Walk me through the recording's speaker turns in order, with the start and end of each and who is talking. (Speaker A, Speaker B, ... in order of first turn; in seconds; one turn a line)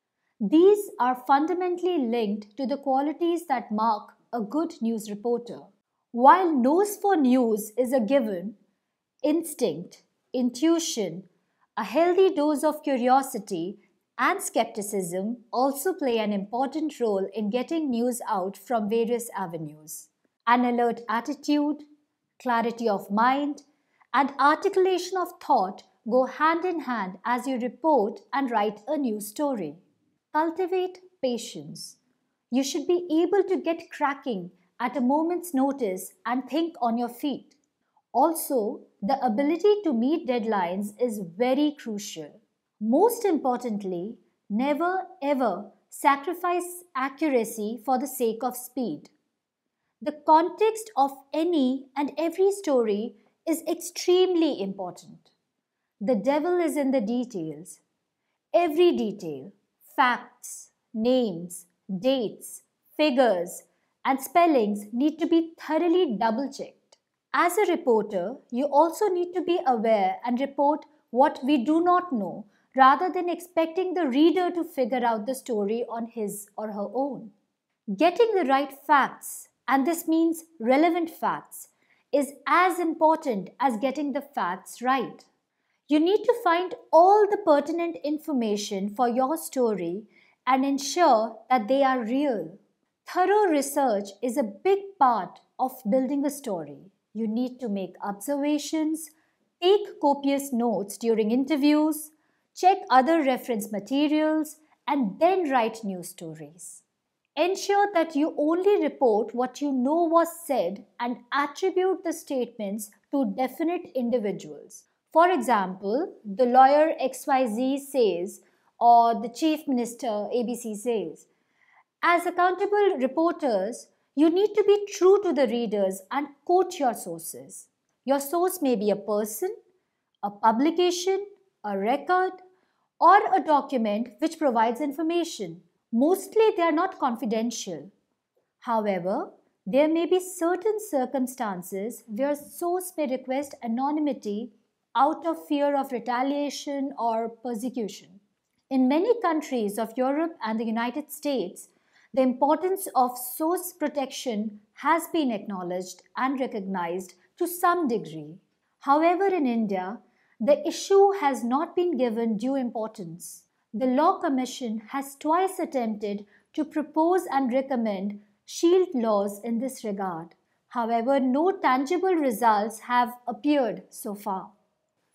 Speaker A: 0.4-8.6
Speaker A: 9.2-21.9
Speaker A: 22.4-32.0
Speaker A: 32.5-37.6
Speaker A: 38.1-49.1
Speaker A: 50.0-55.3
Speaker A: 56.0-57.8
Speaker A: 58.5-77.3
Speaker A: 77.9-85.3
Speaker A: 85.9-106.8
Speaker A: 107.4-121.3
Speaker A: 122.0-129.5
Speaker A: 130.2-132.4
Speaker A: 133.0-137.9
Speaker A: 138.6-174.5